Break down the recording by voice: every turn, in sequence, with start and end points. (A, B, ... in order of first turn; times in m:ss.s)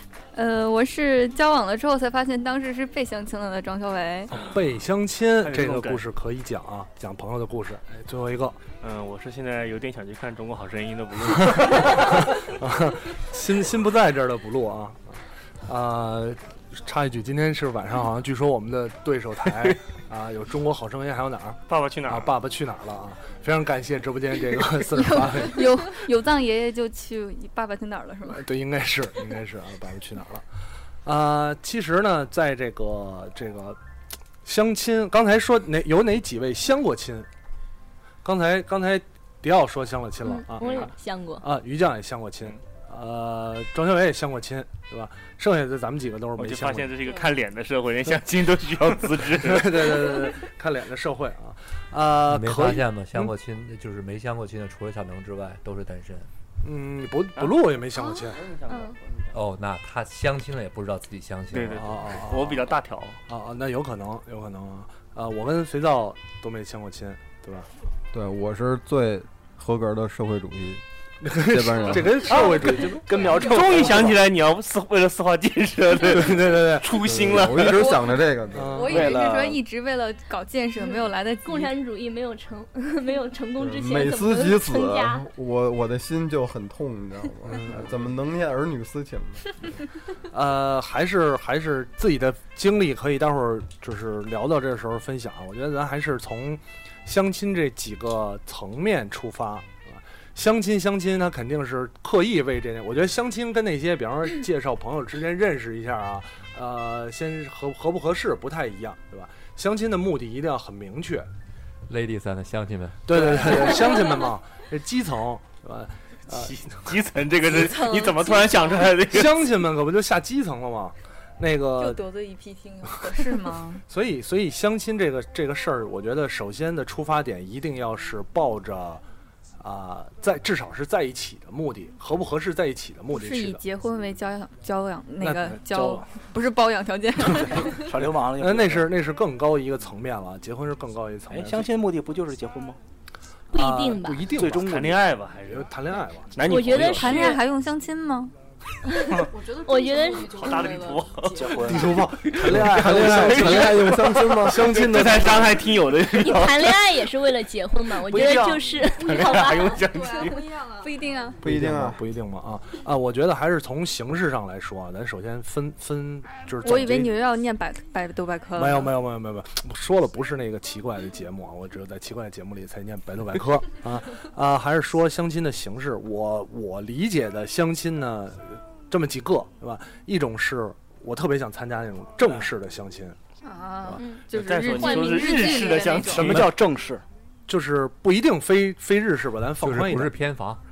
0:00.3-0:04.3 A
0:04.3-0:08.6 B
0:05.4-0:06.0 C
0:08.8-0:12.6 C
0:11.4-0:25.9 B
0:21.7-0:22.4 C
0:24.9-0:28.5 A
0:28.3-0:30.5 B
0:31.0-0:33.8 B
0:34.4-0:37.3 B
0:38.2-0:47.1 B
0:40.2-0:41.5 D
0:40.6-0:40.9 C
0:46.4-0:50.4 C
0:49.4-0:53.3 B
0:52.3-0:56.3 E
0:56.6-0:58.5 B
0:57.4-0:57.6 C
0:58.2-0:59.4 C
0:58.7-0:59.0 D
0:59.3-1:02.2 E
1:01.5-1:03.2 C
1:01.8-1:02.7 B
1:03.3-1:07.7 B
1:08.1-1:12.6 F
1:11.2-1:13.2 B
1:12.2-1:17.9 C
1:13.0-1:14.2 G
1:16.0-1:17.0 B
1:17.0-1:19.0 F
1:17.7-1:18.0 A
1:18.5-1:19.2 B
1:18.7-1:21.7 A
1:18.9-1:19.6 G
1:21.4-1:25.3 D
1:23.6-1:29.5 F
1:27.5-1:28.0 B
1:30.3-1:51.3 B
1:51.9-1:53.3 E
1:53.1-1:56.9 B
1:56.3-1:59.4 C
1:57.5-1:58.9 A
1:59.0-2:02.0 B
2:01.8-2:03.8 A
2:03.9-2:09.0 B
2:09.6-2:13.6 B
2:13.1-2:17.9 A
2:15.2-2:15.6 B
2:15.5-2:16.0 G
2:17.4-2:18.9 G
2:18.1-2:21.7 B
2:21.3-2:22.8 G
2:23.5-2:24.3 D
2:23.5-2:24.7 B
2:24.3-2:25.1 G
2:24.6-2:25.7 C
2:25.5-2:27.1 B
2:26.3-2:27.4 C
2:26.4-2:27.4 D
2:26.8-2:28.3 A
2:28.9-2:30.6 D
2:29.2-2:31.5 H
2:30.3-2:36.8 C
2:31.3-2:33.4 G
2:31.6-2:35.7 B
2:32.8-2:34.8 F
2:36.1-2:39.8 D
2:38.1-2:40.5 C
2:39.0-2:41.2 H
2:40.8-2:41.4 A
2:41.4-2:47.1 B
2:41.4-2:42.0 F
2:46.6-2:49.0 A
2:48.6-3:03.2 B
3:03.4-3:06.3 A
3:04.0-3:06.0 D
3:04.3-3:06.6 C
3:06.1-3:06.6 B
3:06.2-3:07.0 G
3:07.5-3:10.2 B
3:09.6-3:10.6 E